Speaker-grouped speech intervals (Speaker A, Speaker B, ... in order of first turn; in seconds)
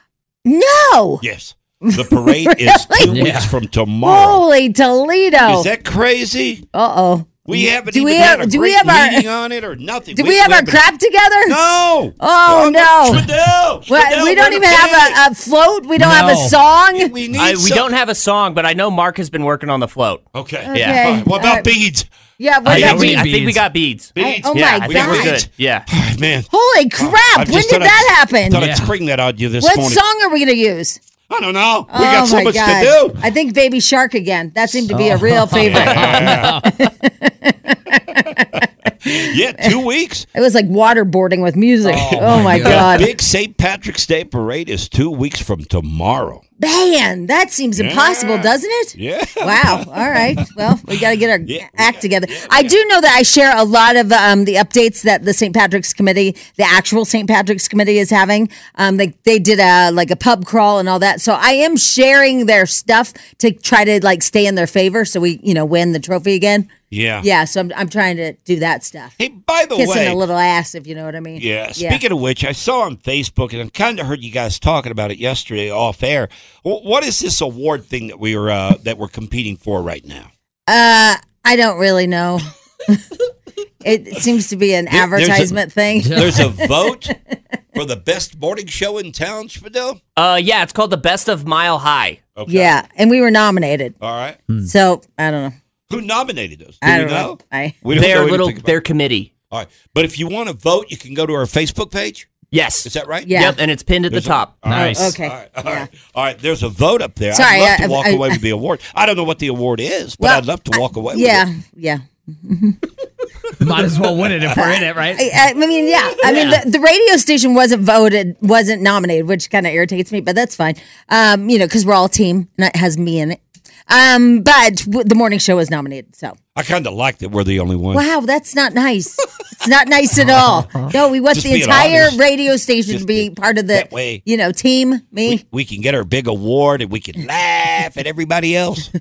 Speaker A: 0.5-1.2, 1.8-3.2, 4.0-5.7, 6.7-9.2, 10.1-11.6, 12.2-13.3, 13.9-17.1, 20.7-21.7, 22.4-23.3, 24.2-25.4, 26.5-28.6, 29.6-31.0, 31.9-39.7, 40.3-43.1, 46.6-66.7, 67.2-69.1, 69.8-72.0, 80.7-83.0, 83.8-87.1, 92.5-94.0, 94.7-95.5, 96.8-97.8, 103.3-103.6, 104.7-105.9, 107.3-108.4, 110.2-112.8, 114.5-126.4, 127.9-135.4
Speaker B: 1.2-4.4, 5.4-6.7, 7.5-10.8, 11.5-15.2, 16.9-17.9, 20.3-22.1, 24.1-30.0, 31.3-33.2, 35.6-36.6, 39.1-40.3, 41.9-46.4, 47.8-50.5, 51.5-52.8, 66.9-67.3, 69.2-70.2, 71.4-80.3, 84.9-87.1, 87.8-90.0, 92.4-92.8, 94.0-94.4, 95.9-98.8, 99.5-102.3, 102.8-103.3, 104.1-111.5, 126.5-128.1, 131.3-132.2, 132.9-134.2, 135.3-138.9
Speaker C: 3.1-3.5, 16.0-16.6, 22.7-23.6, 28.6-28.9, 34.9-36.8, 41.9-43.0, 86.0-86.4, 104.7-105.1, 113.6-115.3, 116.2-116.6, 130.2-130.9
Speaker D: 17.3-21.1, 22.7-25.9, 90.2-92.3, 97.9-99.3, 102.5-104.6